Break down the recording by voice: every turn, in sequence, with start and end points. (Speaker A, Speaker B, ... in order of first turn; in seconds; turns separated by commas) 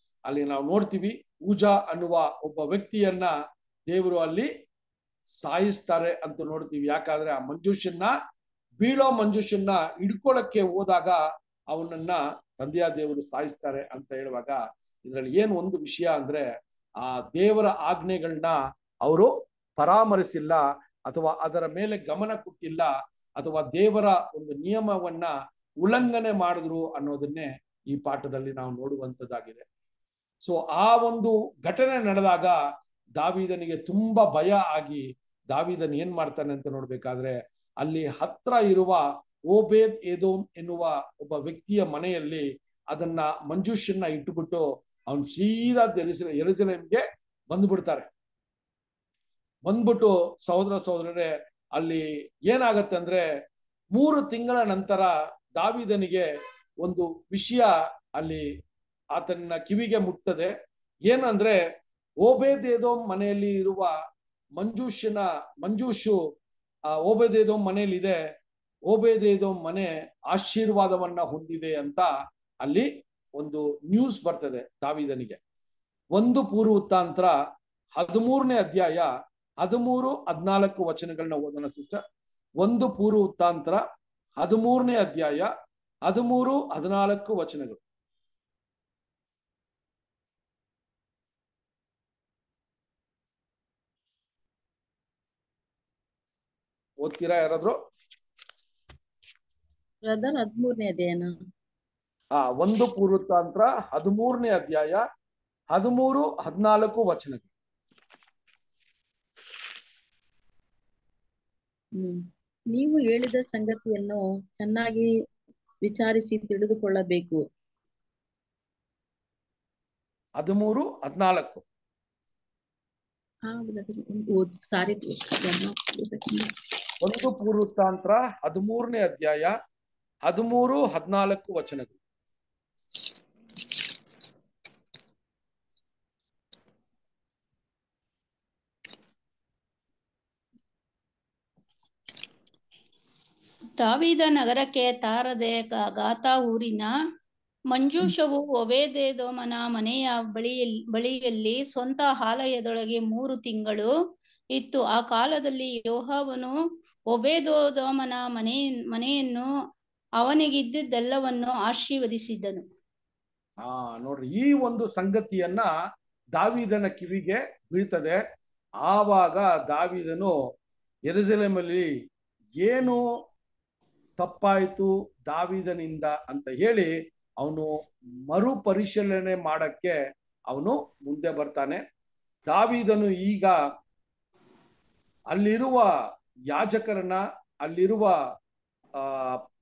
Speaker A: 0.3-3.3, Speaker A: 3.9-4.5, Speaker A: 5.4-8.1, Speaker A: 8.8-11.2, Speaker A: 11.7-16.4, Speaker A: 17.0-25.3, Speaker A: 25.8-29.6, Speaker A: 30.5-32.6, Speaker A: 33.2-48.1, Speaker A: 49.7-53.2, Speaker A: 53.9-56.2, Speaker A: 56.8-58.5, Speaker A: 59.2-60.5, Speaker A: 61.1-61.6, Speaker A: 62.2-63.9, Speaker A: 64.6-66.2, Speaker A: 67.0-68.2, Speaker A: 68.9-72.1, Speaker A: 72.6-75.4, Speaker A: 76.2-77.3, Speaker A: 78.0-79.1, Speaker A: 79.6-82.0, Speaker A: 82.6-83.8, Speaker A: 84.4-85.5, Speaker A: 86.1-87.8, Speaker A: 97.0-97.8, Speaker B: 100.0-101.3, Speaker A: 102.4-105.0, Speaker A: 105.7-107.5, Speaker B: 112.0-115.1, Speaker B: 115.8-117.4, Speaker A: 120.4-121.6, Speaker B: 123.5-126.5, Speaker A: 127.0-129.5, Speaker A: 130.3-131.9, Speaker C: 143.8-146.9, Speaker C: 147.7-153.9, Speaker C: 154.6-156.6, Speaker C: 157.1-159.5, Speaker C: 160.2-162.7, Speaker A: 163.6-165.7, Speaker A: 166.4-168.2, Speaker A: 168.9-170.3, Speaker A: 171.1-171.9, Speaker A: 172.6-173.0, Speaker A: 174.2-176.9, Speaker A: 177.4-177.7, Speaker A: 178.3-179.9, Speaker A: 180.5-181.8, Speaker A: 182.5-183.6, Speaker A: 185.3-185.9, Speaker A: 186.5-188.2, Speaker A: 189.0-189.4